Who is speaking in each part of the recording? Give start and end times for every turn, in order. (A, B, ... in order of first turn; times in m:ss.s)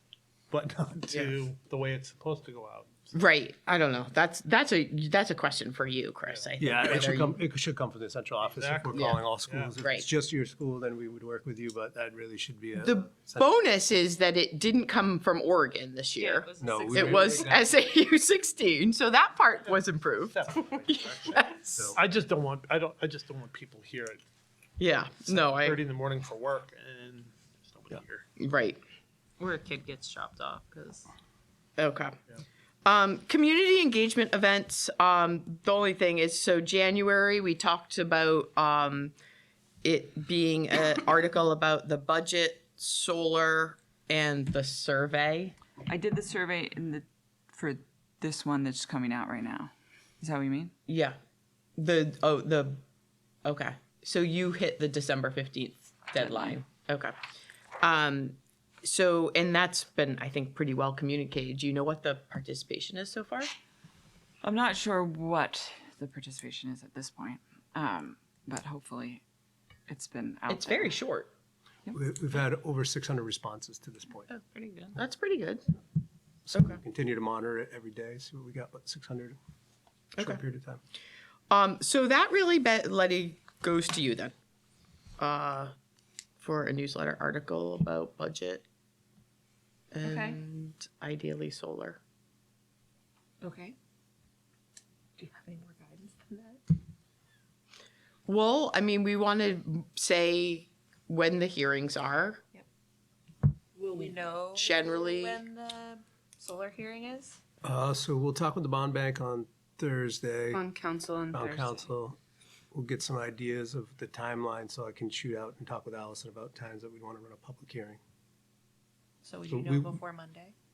0:00.5-0:03.1 A
0:01.1-0:01.4 B
0:03.1-0:07.4 B
0:06.2-0:06.5 A
0:06.6-0:13.6 C
0:08.5-0:09.7 A
0:08.9-0:09.2 B
0:09.8-0:10.1 B
0:12.8-0:21.9 B
0:16.2-0:17.6 D
0:16.6-0:17.7 C
0:20.2-0:21.4 A
0:21.9-0:24.2 A
0:24.8-0:25.8 B
0:25.2-0:28.2 A
0:28.4-0:28.8 B
0:29.4-0:31.1 D
0:31.8-0:32.1 B
0:32.8-0:39.1 B
0:39.8-0:45.6 B
0:45.8-0:50.7 E
0:50.9-0:51.2 B
0:51.8-0:52.8 B
0:53.4-0:57.1 B
0:56.2-0:56.6 E
0:57.8-1:03.5 B
1:04.4-1:09.2 E
1:09.9-1:11.0 E
1:10.5-1:11.3 B
1:11.9-1:14.3 C
1:14.3-1:15.6 B
1:14.5-1:14.9 D
1:16.5-1:19.4 C
1:16.5-1:16.8 B
1:20.2-1:20.4 B
1:20.2-1:20.8 C
1:21.5-1:24.3 B
1:25.2-1:25.7 B
1:26.4-1:28.6 B
1:29.9-1:32.0 B
1:30.0-1:30.4 F
1:33.4-1:33.8 F
1:35.2-1:36.6 F
1:38.3-1:42.4 B
1:43.8-1:47.4 F
1:44.5-1:45.4 B
1:47.6-1:50.6 C
1:50.5-1:51.4 F
1:51.3-1:52.2 C
1:52.7-1:58.0 C
1:59.2-2:00.5 F
1:59.5-2:00.0 C